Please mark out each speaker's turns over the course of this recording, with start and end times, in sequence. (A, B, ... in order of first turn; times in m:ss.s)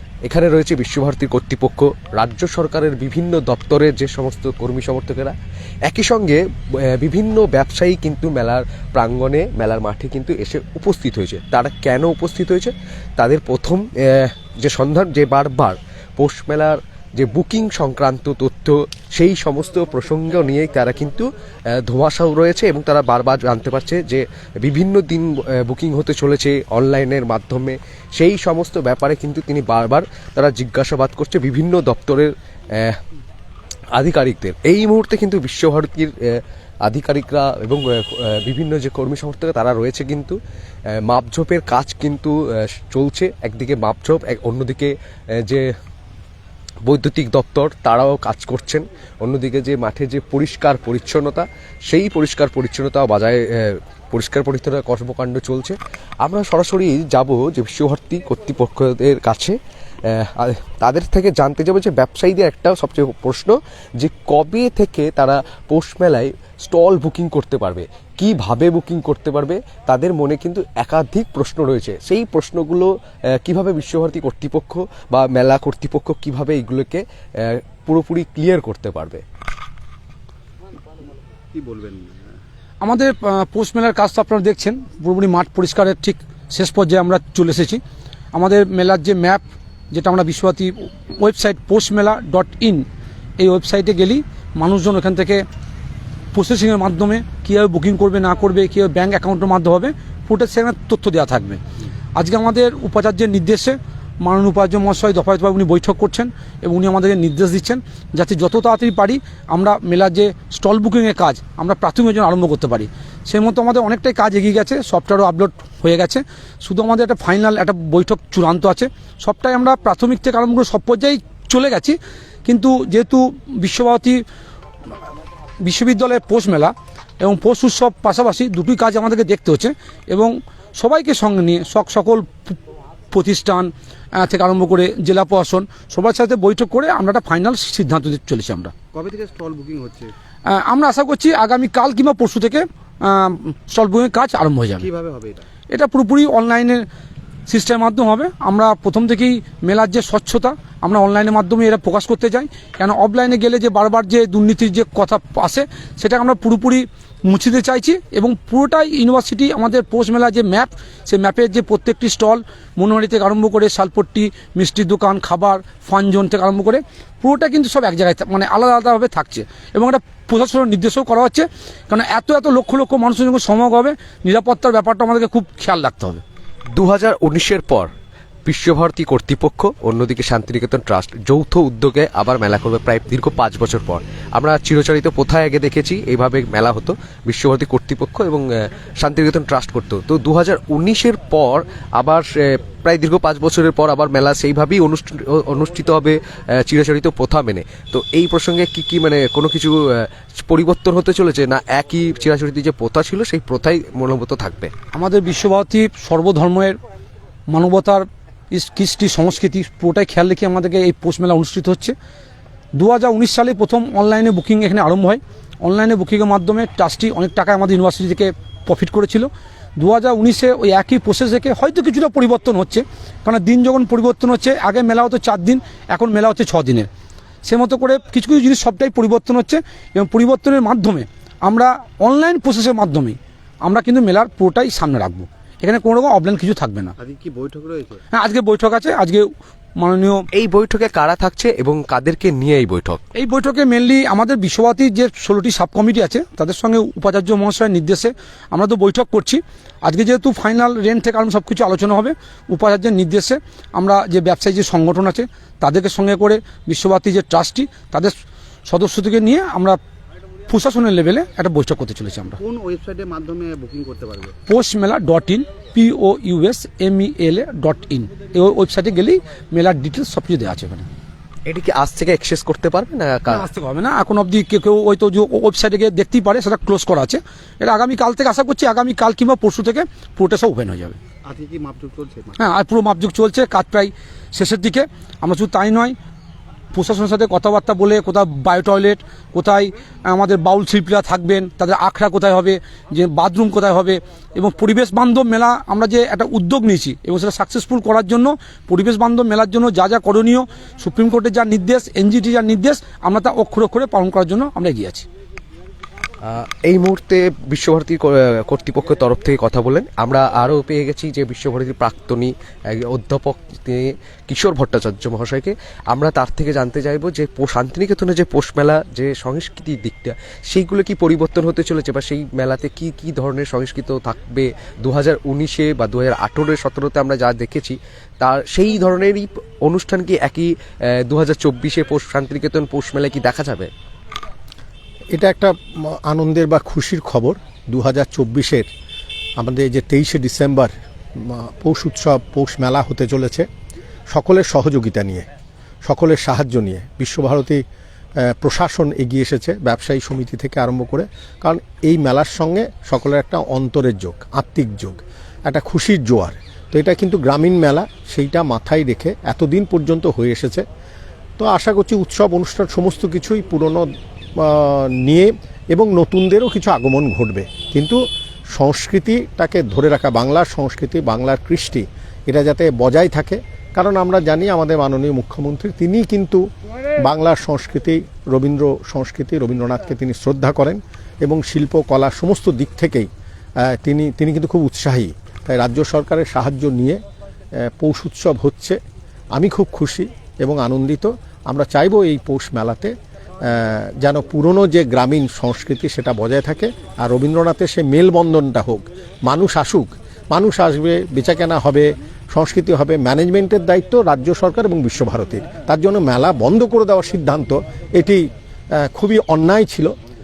0:00.2-0:33.0 A
0:33.9-0:40.4 A
0:40.9-0:45.7 A
0:46.8-1:19.2 A
1:21.5-1:22.1 B
1:22.8-1:27.8 C
1:28.3-1:32.8 C
1:33.4-1:35.4 C
1:36.3-1:41.6 C
1:42.2-2:04.2 C
2:05.6-2:12.6 C
2:13.1-2:18.7 C
2:18.9-2:20.1 B
2:20.5-2:24.9 C
2:24.8-2:25.4 B
2:25.7-2:26.8 C
2:27.5-2:56.2 C
2:56.7-2:57.9 A
2:58.4-3:24.7 A
3:24.9-3:26.8 C
3:27.5-3:31.9 C
3:32.8-3:46.9 C
3:47.4-3:56.9 C
3:57.0-3:58.0 B
3:58.1-3:59.2 C
3:59.8-4:00.3 C
4:00.3-4:03.0 A
4:03.1-4:18.1 C
4:18.7-4:19.8 C
4:20.5-4:22.4 C
4:22.4-4:24.3 B
4:24.5-4:30.9 C
4:31.4-4:33.5 A
4:33.3-4:41.0 C
4:41.2-4:42.4 B
4:42.4-4:45.9 C
4:46.7-5:05.0 C
5:06.2-5:33.7 A
5:35.1-5:38.7 D
5:39.4-5:43.4 D
5:44.1-5:45.3 D
5:45.8-5:47.6 D
5:48.2-6:00.6 D
6:01.4-6:03.8 D
6:04.4-6:08.0 D
6:08.5-6:16.4 D
6:17.0-6:23.1 D
6:23.6-6:27.0 D
6:27.6-6:28.8 D
6:29.3-6:48.2 D
6:48.8-6:49.9 D